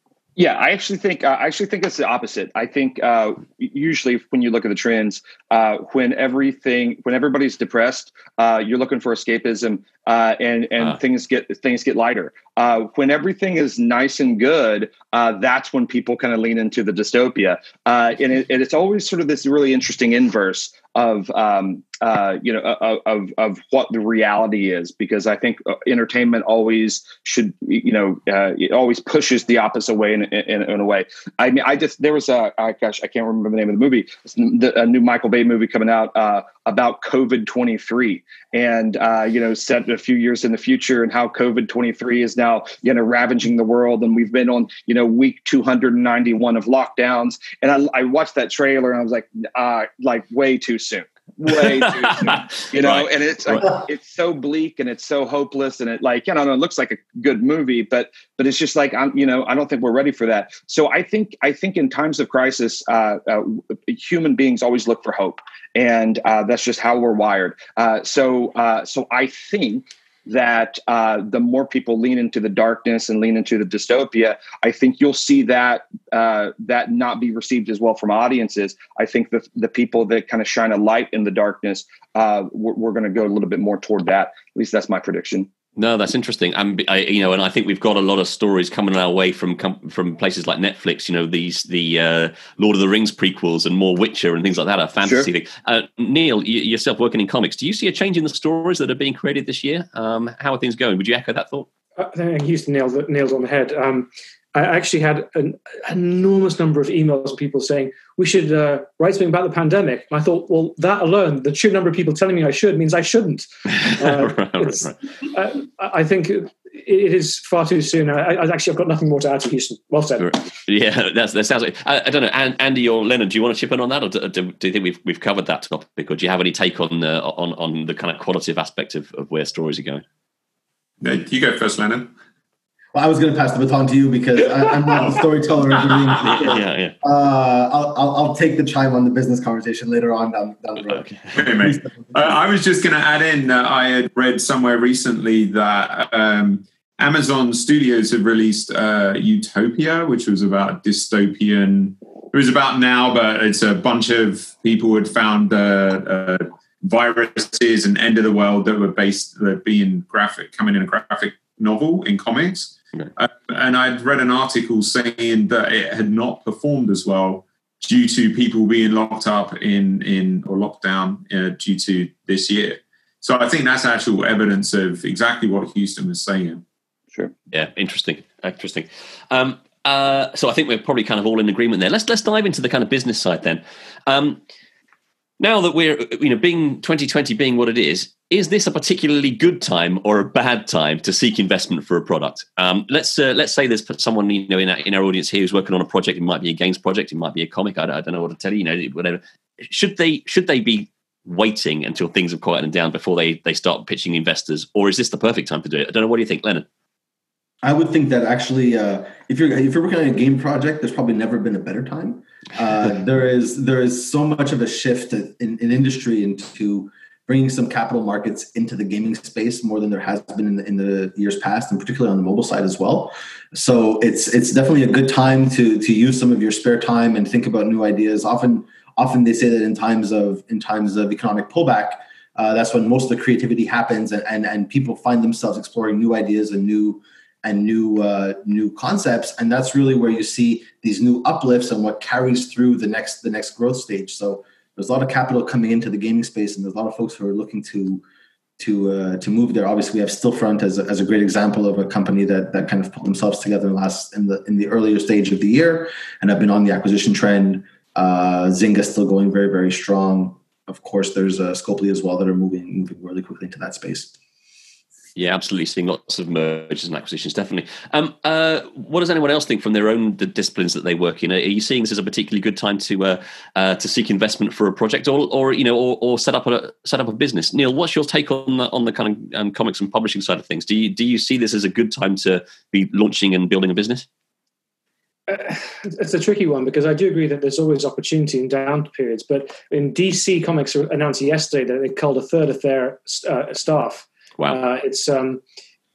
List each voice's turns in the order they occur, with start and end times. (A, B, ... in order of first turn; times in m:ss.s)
0:00.4-1:25.5 A
0:51.5-0:53.7 B
1:25.8-1:41.7 B
1:35.0-1:35.3 A
1:42.0-2:00.3 C
1:53.7-1:55.0 B
2:00.2-2:10.0 B
2:11.0-2:12.1 D
2:12.9-2:22.4 E
2:15.8-2:16.9 B
2:20.9-2:21.4 B
2:21.3-2:56.6 D
2:57.5-3:04.4 B
3:05.4-3:26.7 B
3:27.6-4:08.0 E
4:08.6-4:24.1 E
4:25.2-4:44.1 B
4:45.3-4:55.4 C